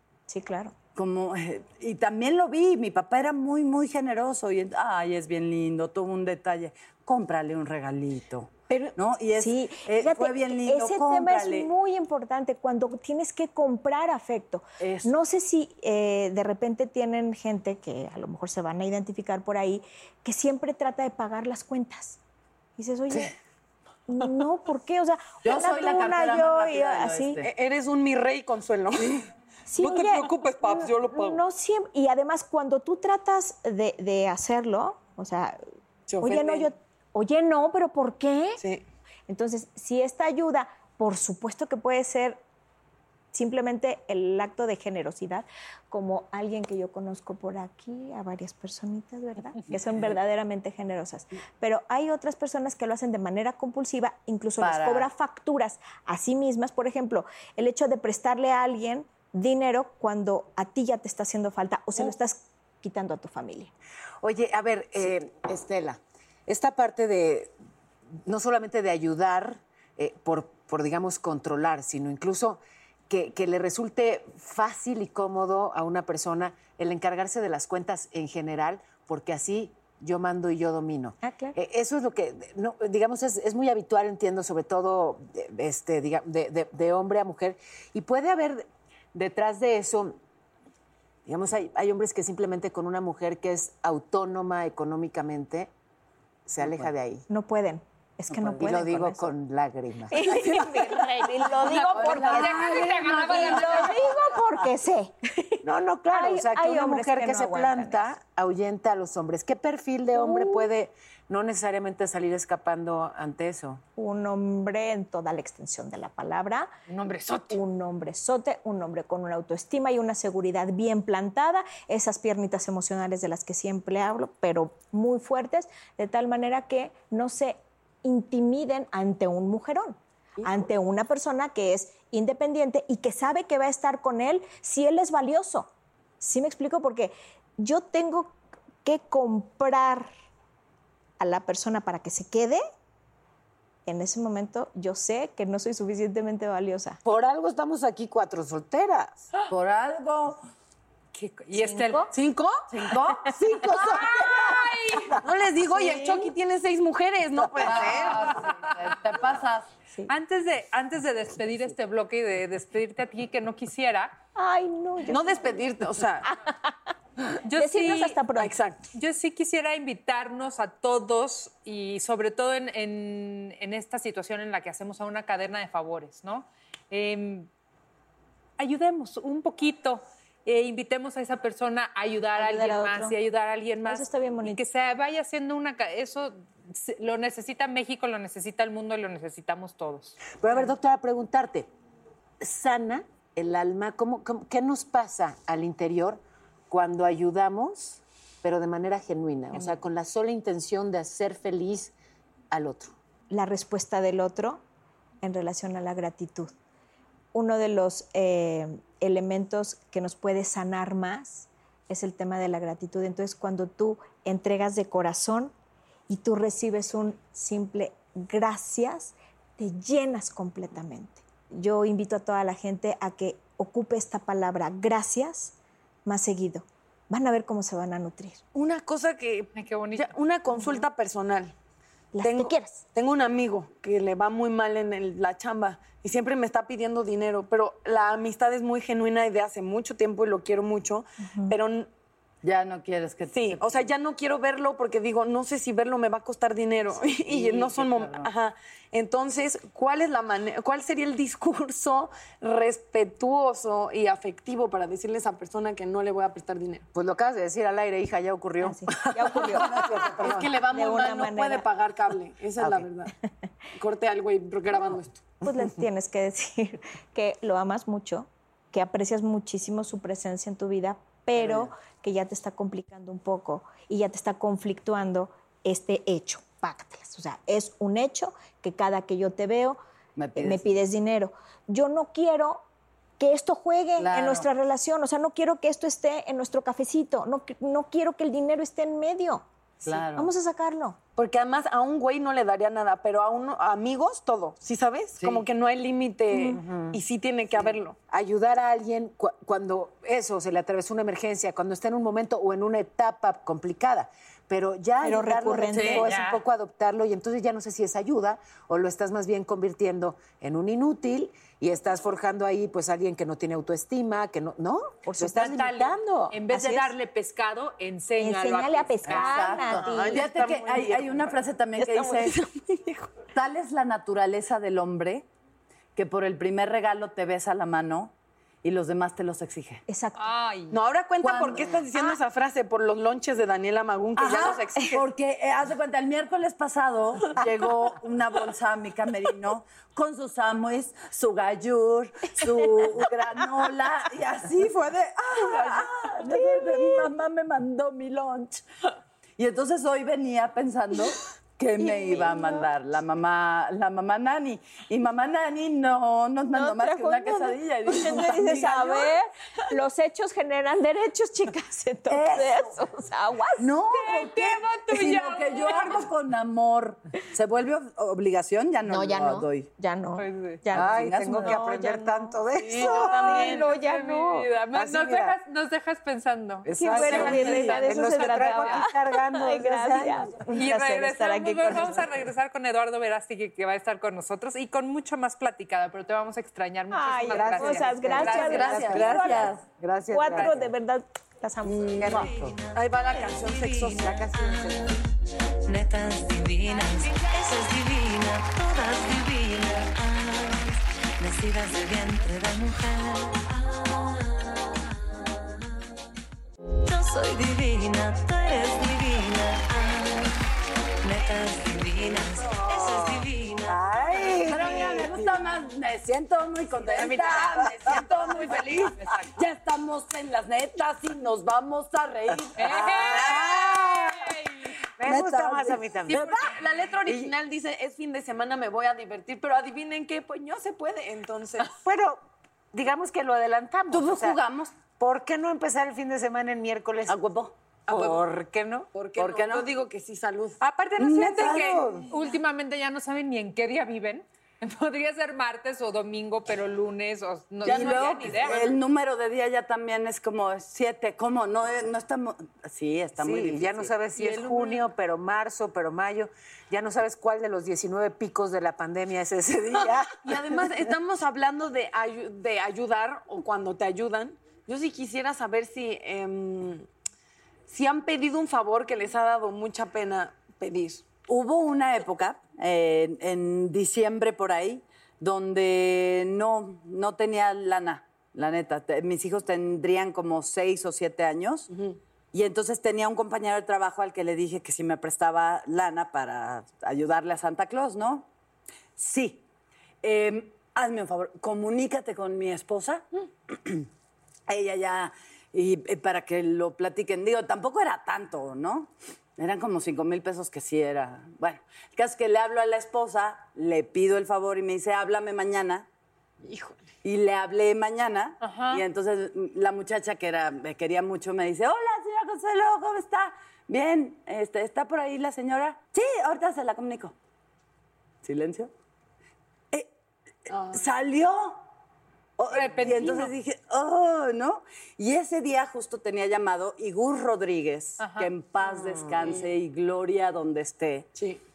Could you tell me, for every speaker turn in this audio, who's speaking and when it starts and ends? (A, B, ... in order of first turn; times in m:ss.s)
0:00.3-0:00.7 A
0:00.9-0:11.7 B
0:08.7-0:22.2 A
0:14.8-0:15.1 B
0:22.8-0:23.3 A
0:24.1-0:27.4 A
0:25.4-0:27.5 B
0:27.4-0:29.2 C
0:29.7-0:35.6 A
0:29.8-0:31.4 C
0:36.1-0:36.7 C
0:36.2-0:38.6 A
0:39.3-0:42.4 A
0:43.3-1:03.7 A
0:54.6-0:55.1 B
1:04.2-1:07.5 D
1:08.3-1:30.2 D
1:21.2-1:21.6 A
1:31.2-1:35.7 D
1:36.5-1:37.2 D
1:36.6-1:36.9 B
1:37.3-1:39.3 A
1:38.3-1:39.0 B
1:38.6-1:41.2 D
1:40.1-1:48.1 A
1:41.8-1:44.0 E
1:42.0-1:43.9 B
1:45.6-1:53.8 D
1:50.1-1:50.7 A
1:54.0-1:56.7 A
1:57.5-2:15.7 A
2:16.2-2:20.1 A
2:21.2-2:22.6 A
2:23.8-2:27.0 A
2:27.0-2:29.2 D
2:29.5-2:30.4 B
2:31.1-2:32.1 E
2:31.6-2:31.9 D
2:31.7-2:32.0 A
2:32.1-2:33.3 C
2:32.7-2:35.0 B
2:33.8-2:35.2 E
2:35.1-2:38.4 C
2:35.7-2:36.3 A
2:37.5-2:39.7 B
2:38.1-2:38.7 E
2:40.1-2:44.1 E
2:44.4-2:46.7 A
2:45.0-2:46.3 C
2:47.4-2:48.2 E
2:47.5-2:48.6 A
2:48.4-2:48.8 C
2:48.9-2:57.5 E
2:58.6-3:10.6 E
3:02.4-3:03.2 A
3:03.8-3:04.6 A
3:10.4-3:11.7 D
3:12.4-3:21.9 D
3:22.5-3:22.9 D
3:23.3-3:24.6 A
3:25.2-3:26.5 A
3:27.3-3:35.5 A
3:36.1-3:45.5 A
3:46.0-3:48.4 A
3:48.5-3:51.5 C
3:49.5-3:50.1 E
3:50.5-3:50.8 A
3:52.1-3:52.8 A
3:52.2-4:01.9 C
4:01.3-4:01.5 A
4:02.4-4:03.9 B
4:03.3-4:16.8 C
4:07.2-4:08.3 B
4:16.9-4:20.5 D
4:18.6-4:21.6 A
4:20.2-4:23.1 C
4:23.8-4:25.2 C
4:24.7-4:39.8 A
4:31.4-4:31.7 B
4:40.2-4:40.7 B
4:40.3-4:42.6 A
4:43.2-4:51.0 A
4:44.0-4:44.5 B
4:49.8-4:50.3 B
4:51.2-4:58.0 C
4:55.2-4:55.4 B
4:56.3-4:56.6 A
4:56.5-4:57.0 D
4:58.1-5:16.3 D
5:05.0-5:06.1 A
5:05.7-5:06.0 B
5:05.8-5:06.4 E
5:15.0-5:15.7 A
5:15.3-5:19.7 E
5:16.5-5:17.0 A
5:18.2-5:20.4 A
5:19.1-5:22.3 B
5:19.7-5:20.7 D
5:19.9-5:21.4 C
5:21.7-5:23.0 A
5:23.3-5:25.2 B
5:26.0-5:28.1 B
5:28.6-5:29.8 B
5:29.9-5:30.3 A
5:30.2-5:30.8 E
5:30.7-5:35.0 C
5:31.2-5:31.8 B
5:34.2-5:48.6 B
5:42.4-5:42.9 A
5:45.4-5:47.1 A
5:49.4-5:59.1 B
5:51.8-5:52.7 A
5:56.5-6:03.7 A
6:02.1-6:02.7 B
6:03.6-6:09.7 B
6:03.9-6:06.0 E
6:08.9-6:14.6 A
6:10.2-6:10.6 E
6:10.7-6:11.6 B
6:10.7-6:13.6 D
6:12.7-6:18.8 E
6:12.9-6:13.7 C
6:14.7-6:15.3 D
6:16.7-6:20.4 D
6:16.7-6:22.3 A
6:20.5-6:29.1 E
6:26.9-6:32.4 A
6:27.3-6:27.7 D
6:28.2-6:29.6 B
6:28.3-6:30.7 D
6:31.7-6:32.6 B
6:31.8-6:32.6 D
6:32.7-6:34.4 C
6:33.5-6:33.7 F
6:33.8-6:34.9 D
6:34.5-6:34.8 F
6:35.7-6:43.4 F
6:46.9-6:50.3 F
6:51.0-6:53.8 F
6:51.9-6:55.1 D
6:53.7-7:04.3 B
6:57.0-6:58.9 D
6:57.1-6:58.9 C
7:02.6-7:04.7 E
7:05.0-7:06.4 D
7:05.0-7:07.3 B
7:06.1-7:11.7 C
7:11.7-7:14.4 D
7:13.9-7:14.7 B
7:15.0-7:17.2 D
7:17.1-7:17.5 B
7:17.9-7:18.2 C
7:17.9-7:18.9 D
7:18.9-7:20.6 C
7:19.2-7:19.7 B
7:20.6-7:28.7 E
7:21.0-7:22.1 B
7:27.6-7:33.9 B
7:33.2-7:40.6 D
7:34.2-7:34.8 E
7:40.2-7:46.8 C
7:47.7-7:51.0 C
7:51.3-8:01.7 B
8:02.3-8:08.3 B
8:09.0-8:09.4 B
8:10.0-8:13.8 B
8:14.5-8:25.9 B
8:26.4-8:26.8 C
8:27.0-8:37.1 B
8:28.4-8:28.8 E
8:38.2-8:38.7 B
8:40.5-8:41.6 B
8:40.5-8:40.8 C
8:42.4-8:51.1 B
8:42.5-8:43.3 E
8:48.0-8:48.3 E
8:49.2-8:49.5 C
8:51.1-8:51.4 C